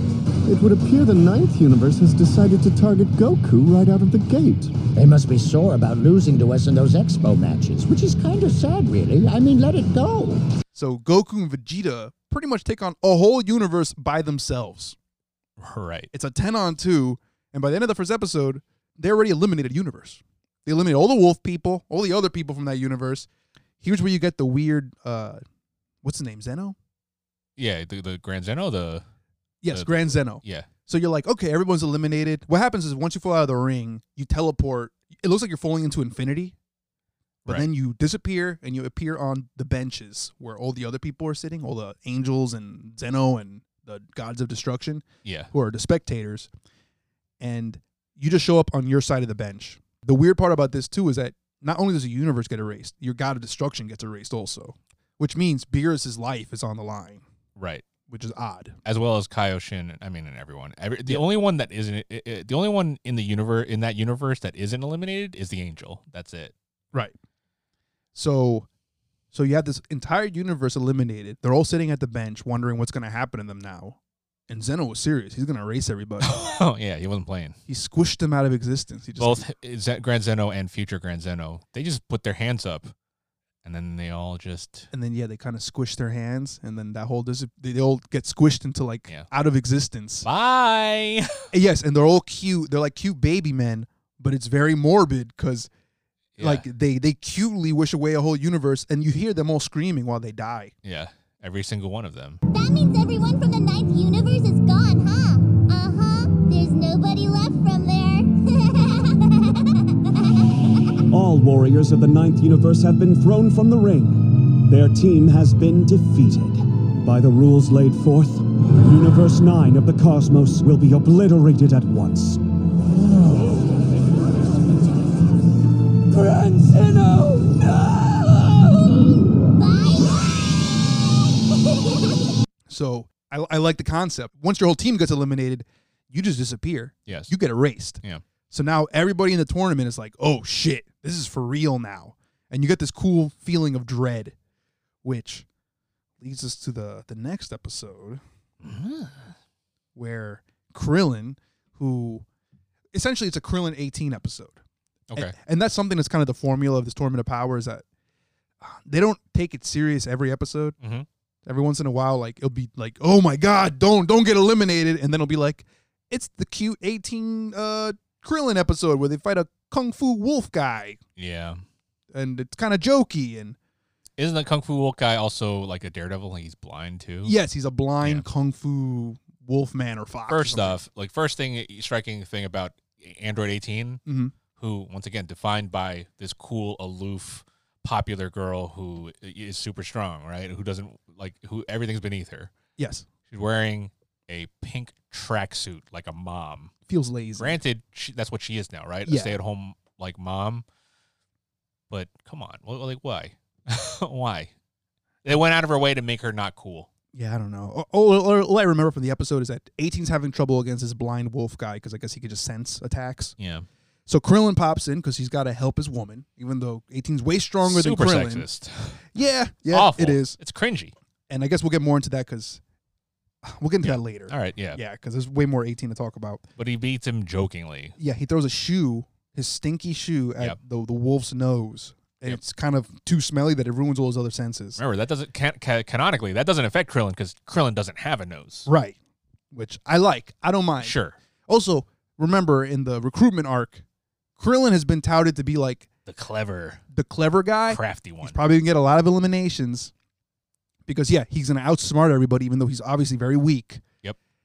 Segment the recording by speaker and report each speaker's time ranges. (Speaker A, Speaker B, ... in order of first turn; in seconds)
Speaker A: 0.5-4.8
Speaker B: 4.9-10.4
Speaker C: 10.7-15.0, 16.1-23.3, 23.8-25.4, 26.0-26.8, 29.6-36.6, 37.5-46.5, 47.4-57.2, 58.1-58.8, 68.1-68.7, 69.3-74.0, 74.5-76.6, 77.7-79.5, 84.9-90.3, 91.5-95.7, 96.4-100.7, 132.7-144.3, 145.0-145.5, 146.2-148.2, 149.9-152.3, 152.9-154.6, 155.2-157.8, 158.6-160.8, 161.4-171.0, 172.1-173.6, 177.2-180.8, 184.1-184.3, 192.8-193.1, 196.9-197.6, 199.1-199.4, 207.1-213.4, 214.1-218.5, 219.1-220.4, 221.3-222.6, 223.4-226.4, 228.0-234.8, 238.7-239.0, 239.5-240.9, 241.5-243.8, 244.4-245.9, 246.9-249.9, 250.9-253.8
Speaker D: 15.6-16.1, 27.6-29.1, 29.7-30.7, 45.2-45.5, 57.6-57.9, 58.9-66.5, 76.2-77.6, 79.2-82.9, 83.6-84.9, 90.2-91.5, 96.4-96.7, 100.8-102.4, 137.1-137.3, 148.6-149.3, 155.1-155.3, 160.8-161.1, 171.2-171.6, 174.2-177.3, 180.3-184.0, 184.6-192.5, 193.3-196.7, 197.4-200.7, 201.9-204.5, 205.2-206.9, 213.4-213.7, 217.6-220.9, 223.8-224.8, 226.6-227.9, 234.8-238.7, 240.8-241.2, 246.1-246.8, 247.7-248.4
Speaker E: 102.5-110.4, 129.6-130.3
Speaker F: 111.1-122.4